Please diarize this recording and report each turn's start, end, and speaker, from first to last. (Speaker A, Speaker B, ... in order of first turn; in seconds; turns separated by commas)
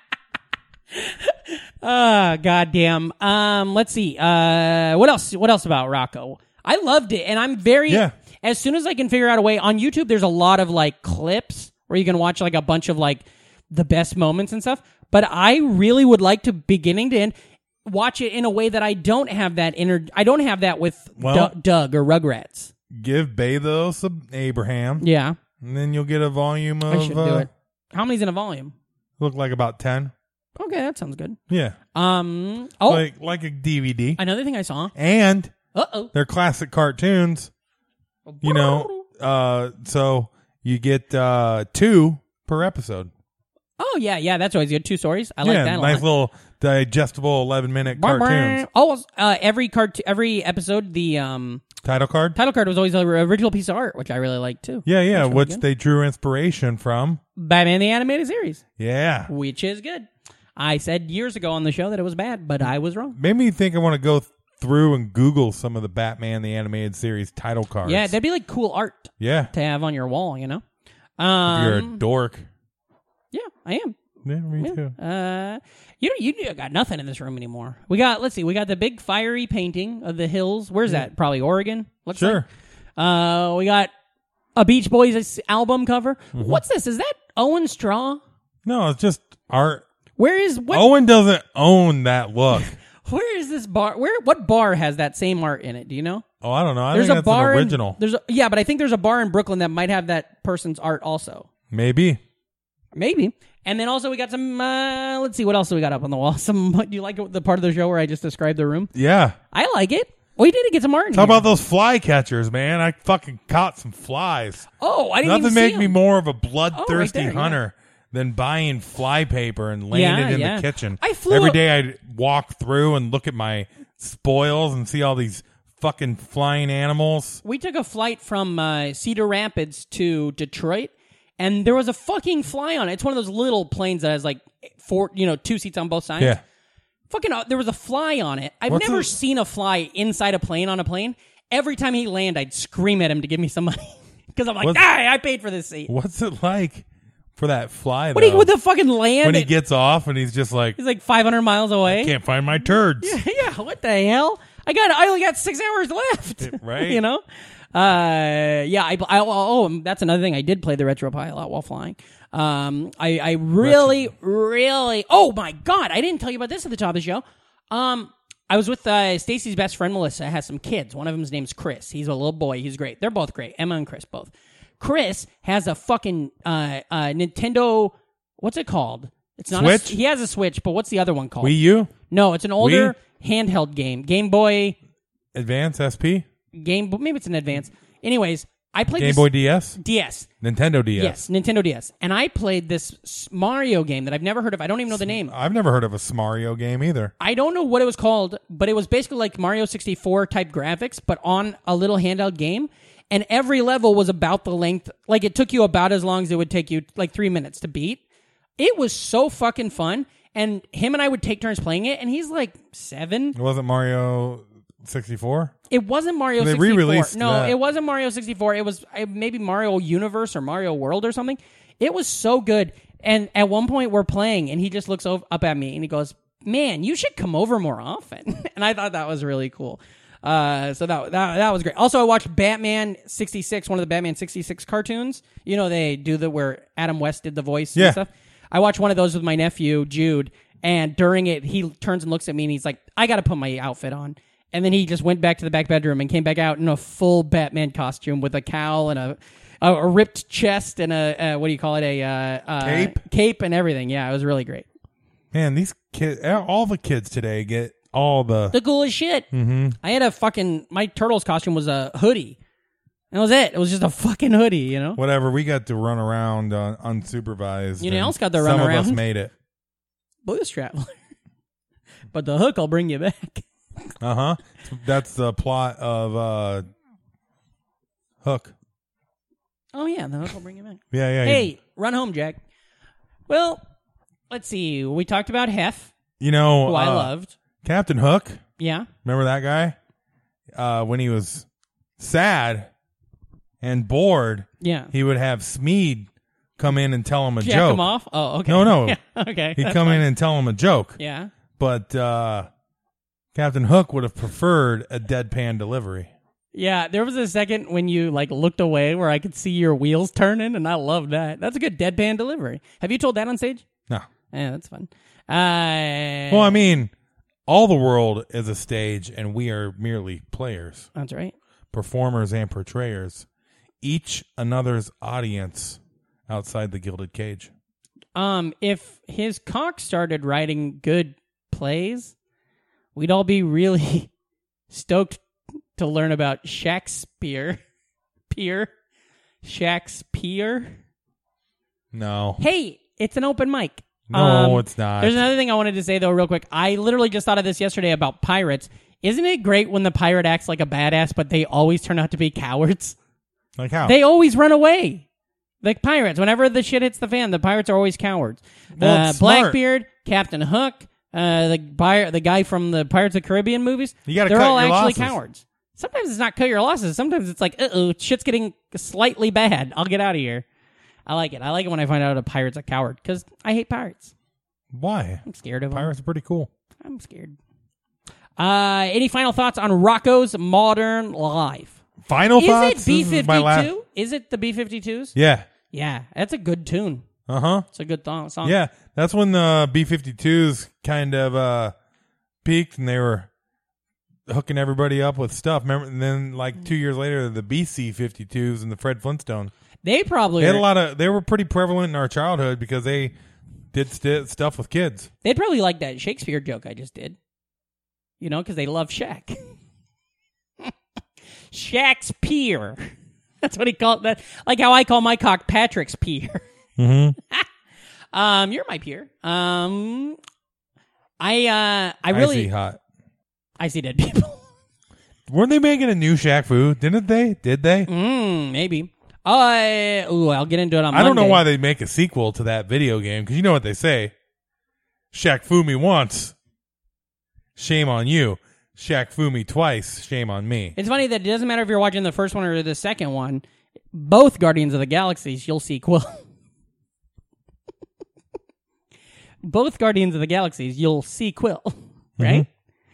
Speaker A: 0.9-17.3, Speaker B: 7.9-8.1, Speaker A: 17.8-22.7, Speaker B: 21.2-21.5, Speaker B: 22.9-25.1, Speaker A: 25.0-25.4, Speaker B: 25.6-27.5, Speaker A: 26.9-28.7, Speaker B: 29.2-30.1, Speaker A: 30.6-31.4, Speaker B: 31.5-31.8, Speaker A: 31.9-33.0, Speaker B: 32.8-34.2, Speaker A: 34.2-34.9, Speaker B: 34.9-35.5, Speaker A: 35.7-36.1, Speaker B: 36.1-37.5, Speaker A: 38.3-39.0, Speaker B: 38.4-43.1, Speaker A: 43.8-46.0, Speaker B: 45.4-48.6, Speaker A: 47.9-51.6, Speaker B: 51.8-52.4, Speaker A: 52.3-55.6, Speaker B: 54.8-57.2, Speaker A: 57.4-58.6, Speaker B: 58.8-59.3, Speaker A: 59.3-63.2, Speaker B: 63.1-68.1, Speaker A: 67.8-70.6, Speaker B: 69.2-69.5, Speaker A: 71.2-72.0, Speaker B: 71.5-72.5, Speaker A: 73.3-74.0, Speaker B: 74.2-74.9, Speaker A: 74.6-82.4, Speaker B: 82.1-82.5, Speaker A: 83.0-83.9, Speaker A: 84.5-88.2, Speaker B: 86.3-86.6, Speaker B: 88.6-89.8, Speaker A: 90.2-90.9, Speaker B: 90.7-92.7, Speaker A: 92.6-96.2, Speaker B: 96.4-98.0, Speaker A: 96.9-101.5, Speaker B: 101.7-102.2, Speaker A: 102.9-108.9, Speaker B: 108.9-109.4, Speaker A: 109.5-111.4, Speaker B: 111.1-114.7, Speaker A: 114.8-116.0, Speaker B: 115.2-127.4, Speaker A: 116.7-117.6, Speaker A: 119.9-121.6, Speaker A: 127.4-136.4, Speaker A: 137.1-145.9, Speaker B: 138.7-139.1, Speaker B: 145.9-148.5, Speaker A: 148.1-149.5, Speaker B: 149.2-150.8, Speaker A: 150.8-152.1, Speaker B: 151.9-153.2, Speaker A: 153.0-157.2, Speaker B: 156.4-157.0, Speaker A: 157.7-184.8, Speaker B: 163.6-164.1, Speaker B: 179.5-179.9, Speaker B: 181.4-181.9, Speaker B: 182.6-182.9, Speaker B: 185.3-186.2, Speaker A: 186.5-190.3, Speaker B: 188.9-189.8, Speaker B: 190.4-191.2, Speaker A: 190.9-195.3, Speaker B: 194.9-197.1, Speaker A: 197.2-208.0, Speaker A: 208.6-213.3, Speaker B: 213.3-215.5, Speaker A: 215.7-254.7, Speaker B: 216.4-217.6, Speaker B: 252.6-253.0, Speaker B: 255.3-258.6, Speaker A: 258.5-259.3, Speaker B: 259.3-259.8, Speaker A: 259.8-262.4, Speaker A: 263.1-265.0, Speaker B: 265.0-269.3, Speaker A: 267.8-269.0, Speaker A: 270.2-271.0, Speaker A: 272.1-273.4, Speaker B: 274.0-276.6, Speaker B: 278.2-278.5, Speaker A: 279.7-282.4, Speaker B: 280.9-281.5, Speaker A: 283.3-283.6, Speaker A: 284.3-285.9, Speaker B: 286.2-287.1, Speaker A: 286.6-287.3, Speaker B: 287.6-288.4, Speaker A: 288.6-288.9, Speaker B: 289.0-289.8, Speaker B: 290.5-291.4, Speaker B: 292.0-292.7, Speaker B: 293.6-297.8, Speaker A: 294.6-294.9, Speaker A: 297.4-300.0, Speaker B: 298.5-299.0, Speaker B: 299.5-301.0, Speaker A: 301.0-301.3, Speaker B: 301.6-302.5, Speaker B: 303.3-306.1, Speaker A: 306.5-313.6, Speaker A: 314.3-316.6, Speaker B: 316.3-316.9, Speaker B: 317.5-320.9, Speaker A: 320.9-321.3, Speaker B: 321.7-323.3, Speaker B: 323.8-327.5, Speaker A: 328.1-332.1, Speaker A: 332.9-334.1, Speaker A: 334.7-335.2, Speaker A: 335.8-337.6, Speaker A: 338.3-338.7, Speaker A: 339.4-340.8, Speaker B: 341.9-342.4, Speaker A: 342.4-352.9, Speaker B: 344.1-345.2, Speaker B: 353.6-353.9, Speaker A: 353.8-355.0, Speaker A: 355.6-370.4, Speaker B: 358.8-359.6, Speaker B: 364.1-365.1, Speaker A: 371.1-374.1, Speaker B: 374.7-376.5, Speaker A: 375.2-375.9, Speaker A: 376.8-377.4, Speaker A: 378.4-381.8, Speaker B: 382.0-383.7, Speaker A: 382.4-385.1, Speaker B: 385.1-385.5, Speaker A: 385.7-387.1, Speaker B: 387.3-387.6, Speaker A: 387.7-388.6, Speaker B: 388.4-391.7, Speaker B: 392.4-393.3, Speaker B: 394.3-399.5, Speaker A: 399.8-400.6, Speaker B: 400.4-403.1, Speaker B: 403.7-405.1, Speaker A: 405.2-407.2, Speaker A: 408.2-409.4, Speaker A: 411.5-416.4, Speaker B: 416.8-417.2, Speaker A: 418.1-420.2, Speaker A: 421.2-422.5, Speaker B: 422.1-422.8, Speaker A: 423.6-424.4, Speaker B: 425.3-427.9, Speaker A: 427.9-431.4, Speaker B: 430.9-434.1, Speaker B: 435.1-436.3, Speaker B: 437.6-440.8, Speaker A: 440.8-443.4, Speaker A: 443.9-446.2, Speaker A: 449.4-452.5, Speaker B: 452.2-452.4